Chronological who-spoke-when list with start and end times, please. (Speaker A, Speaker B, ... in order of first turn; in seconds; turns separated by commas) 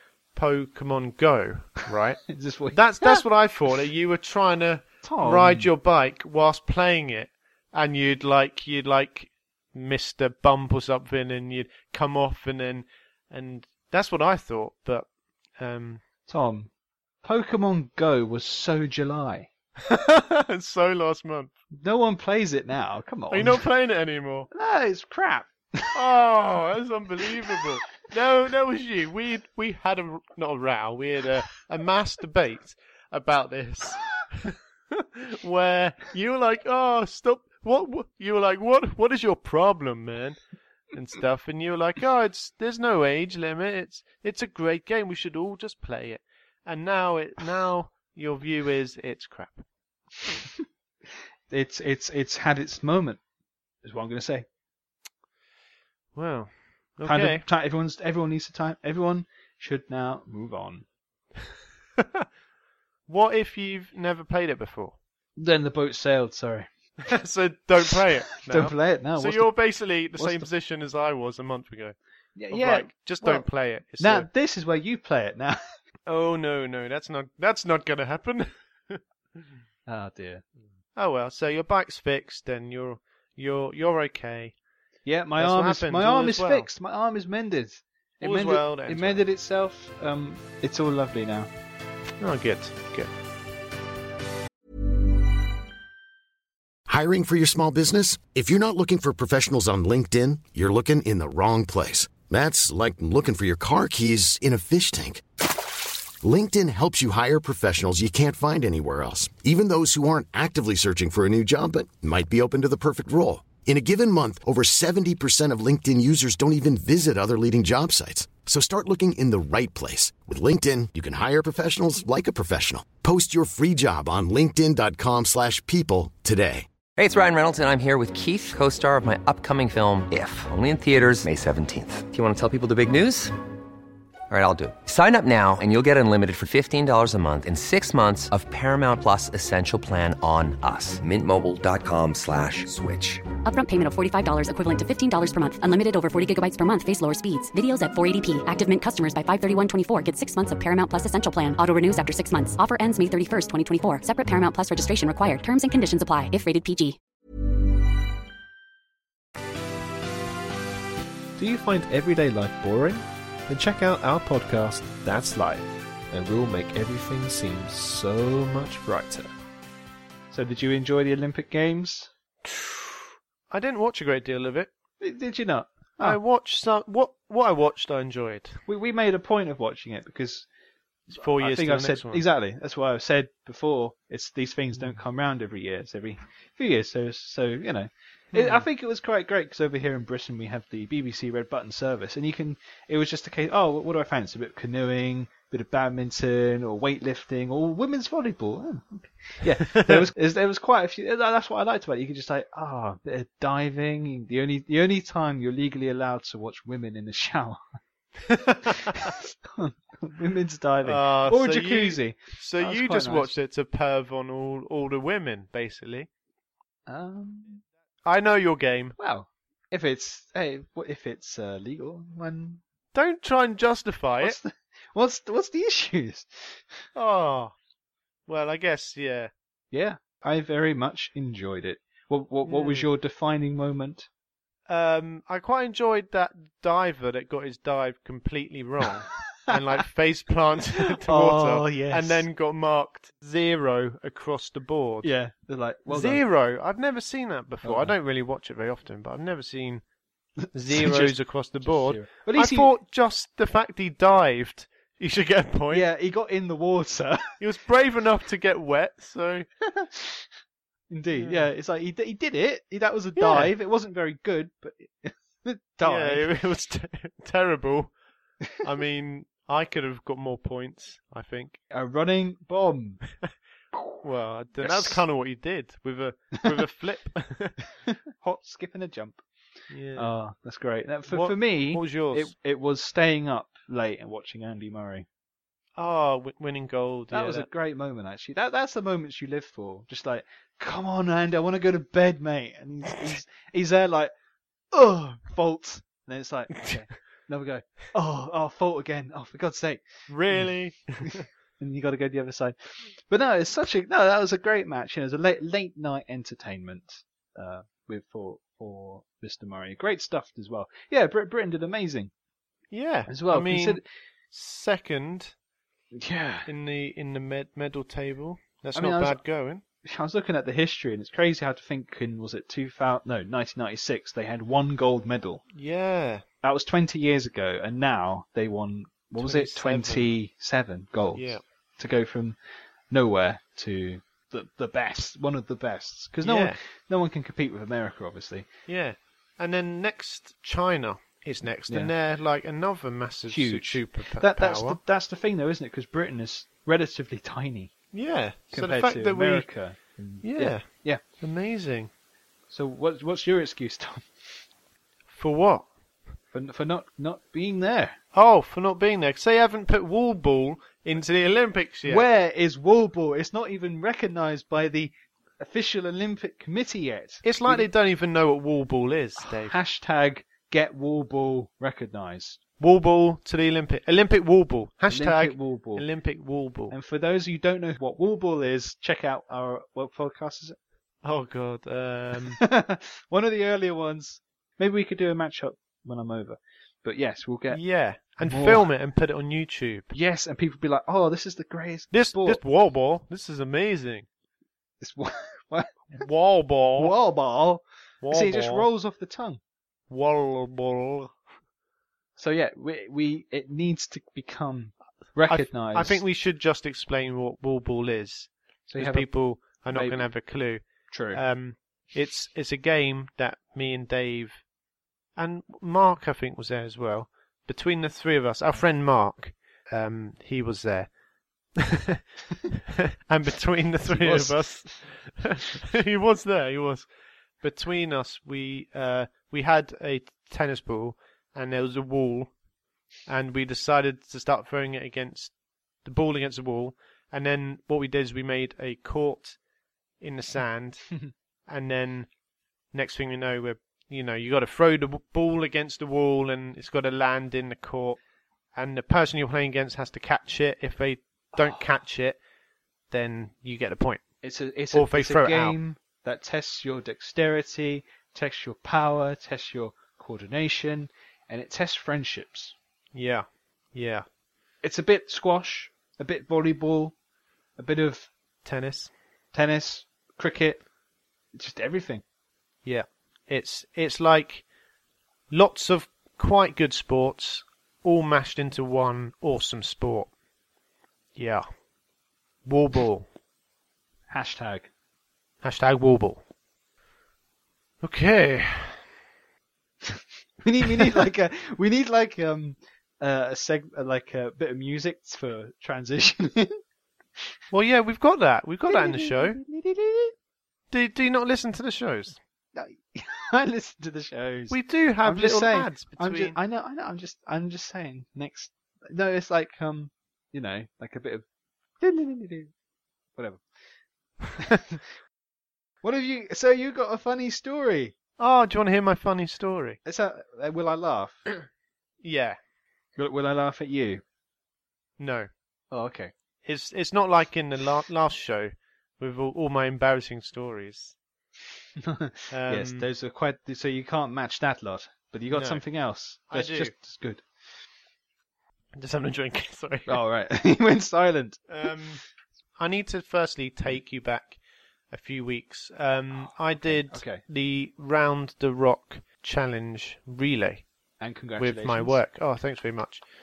Speaker A: 0.3-15.1, Speaker B: 2.3-3.2, Speaker B: 5.0-5.7, Speaker A: 15.6-16.0, Speaker B: 16.3-16.7, Speaker B: 17.2-19.5, Speaker A: 19.8-21.5, Speaker B: 21.8-23.6, Speaker A: 23.3-24.5, Speaker B: 24.5-26.0, Speaker A: 25.9-40.4, Speaker B: 27.2-27.8, Speaker A: 40.9-49.6, Speaker B: 51.5-53.2, Speaker B: 53.8-54.5, Speaker A: 56.1-57.5, Speaker B: 57.0-60.9, Speaker A: 62.0-62.3, Speaker A: 63.1-65.0, Speaker B: 65.4-66.7, Speaker A: 67.0-72.0, Speaker B: 68.4-69.5, Speaker B: 70.2-70.5, Speaker B: 72.4-75.6, Speaker A: 72.5-74.3, Speaker A: 76.1-79.5, Speaker B: 79.9-80.5, Speaker A: 81.0-84.5, Speaker B: 85.1-91.5, Speaker A: 85.4-86.7, Speaker A: 88.2-89.2, Speaker A: 92.2-93.1, Speaker C: 96.9-105.2, Speaker C: 106.2-126.7, Speaker D: 127.0-133.4, Speaker D: 134.3-143.2, Speaker E: 143.4-157.0, Speaker B: 161.4-162.8, Speaker F: 161.7-162.7, Speaker F: 163.5-165.5, Speaker B: 164.1-165.5, Speaker F: 166.1-167.0, Speaker B: 166.9-168.1, Speaker F: 168.3-168.7, Speaker B: 168.8-169.3, Speaker B: 170.3-172.1, Speaker A: 172.5-174.7, Speaker B: 175.0-176.2, Speaker A: 176.0-178.6, Speaker B: 178.7-180.5, Speaker A: 181.1-182.2, Speaker B: 181.1-207.6, Speaker A: 188.3-188.6, Speaker A: 199.7-200.1, Speaker A: 208.3-209.1, Speaker B: 208.7-213.3, Speaker A: 210.8-216.1, Speaker B: 216.9-217.6, Speaker A: 218.1-219.0, Speaker B: 219.0-222.6, Speaker A: 222.9-224.4, Speaker B: 224.2-226.8, Speaker A: 226.9-227.5, Speaker A: 228.3-229.3, Speaker B: 229.7-234.1, Speaker A: 232.4-232.9, Speaker A: 234.7-245.1, Speaker B: 241.0-242.2, Speaker B: 245.0-246.2, Speaker A: 245.9-249.8, Speaker B: 247.6-247.9, Speaker A: 250.5-255.9, Speaker B: 250.7-252.7, Speaker B: 255.7-257.3, Speaker A: 257.4-259.5, Speaker B: 259.7-260.3, Speaker B: 260.9-266.3, Speaker A: 261.2-261.5, Speaker A: 263.2-263.5, Speaker A: 265.8-267.9, Speaker A: 268.6-271.6, Speaker B: 271.7-273.0, Speaker A: 274.0-277.6, Speaker B: 274.6-275.0, Speaker B: 277.9-279.2, Speaker A: 279.7-280.1, Speaker B: 279.9-285.1, Speaker A: 281.1-282.3, Speaker A: 285.8-287.5, Speaker B: 287.1-294.1, Speaker B: 294.7-312.1, Speaker A: 300.1-301.2, Speaker A: 312.7-313.8, Speaker B: 313.1-313.8, Speaker A: 314.3-315.4, Speaker B: 315.9-316.5, Speaker A: 316.5-319.6, Speaker B: 318.8-319.2, Speaker B: 319.8-325.4, Speaker A: 325.5-326.2, Speaker B: 326.4-332.4, Speaker A: 329.2-330.1, Speaker A: 331.1-331.4, Speaker B: 332.9-338.5, Speaker A: 336.2-336.6, Speaker A: 338.7-344.8, Speaker B: 341.7-341.9, Speaker B: 343.3-347.7, Speaker A: 347.9-349.5, Speaker B: 348.5-351.0, Speaker A: 350.2-351.9, Speaker B: 352.5-354.1, Speaker A: 355.1-355.7, Speaker B: 356.3-358.0, Speaker A: 358.1-362.1, Speaker B: 361.9-367.7, Speaker A: 367.2-369.6, Speaker B: 369.2-372.4, Speaker A: 372.6-376.8, Speaker B: 374.9-375.9, Speaker B: 376.7-380.6, Speaker A: 381.0-382.4, Speaker B: 382.3-387.6, Speaker A: 387.5-389.9, Speaker B: 388.2-388.7, Speaker B: 389.9-392.4, Speaker A: 391.9-394.1, Speaker B: 394.8-396.1, Speaker A: 395.9-396.9, Speaker B: 396.8-399.4, Speaker A: 398.0-398.7, Speaker A: 399.9-401.1, Speaker B: 402.2-406.0, Speaker A: 405.3-414.4, Speaker B: 408.7-410.2, Speaker B: 410.9-411.2, Speaker A: 415.2-420.9, Speaker A: 421.6-422.0, Speaker A: 422.5-426.9, Speaker B: 423.9-424.7, Speaker A: 427.4-432.3, Speaker A: 433.1-439.4, Speaker A: 440.0-442.1, Speaker A: 442.7-448.0, Speaker A: 448.6-452.2, Speaker A: 452.9-454.0, Speaker B: 454.2-462.6, Speaker A: 454.7-455.6, Speaker A: 462.9-464.1, Speaker B: 464.6-466.9, Speaker B: 467.6-468.1, Speaker A: 468.4-468.9, Speaker B: 469.3-470.6, Speaker B: 471.3-472.0, Speaker A: 472.6-474.4, Speaker A: 475.3-480.1, Speaker A: 481.2-481.5, Speaker A: 482.5-483.1, Speaker B: 484.1-484.7, Speaker A: 485.4-486.2, Speaker A: 487.8-488.9, Speaker B: 490.4-496.6, Speaker A: 497.5-499.4, Speaker B: 498.7-500.1, Speaker A: 500.7-502.2, Speaker B: 502.6-511.2, Speaker A: 504.5-506.4, Speaker B: 511.8-512.5, Speaker B: 513.2-513.5, Speaker B: 514.4-514.8, Speaker B: 515.8-518.0, Speaker A: 518.2-519.8, Speaker B: 519.9-521.2, Speaker A: 522.0-522.4, Speaker B: 523.0-524.0, Speaker A: 525.0-525.3, Speaker B: 525.7-526.1, Speaker A: 526.5-531.0, Speaker B: 531.8-537.2, Speaker A: 532.3-532.9, Speaker A: 535.3-535.6, Speaker A: 536.3-536.7, Speaker A: 538.8-540.0, Speaker B: 539.9-541.7, Speaker A: 541.5-542.0, Speaker A: 542.6-544.4, Speaker A: 544.9-550.7, Speaker B: 546.6-547.2, Speaker B: 551.0-552.0, Speaker A: 551.4-553.0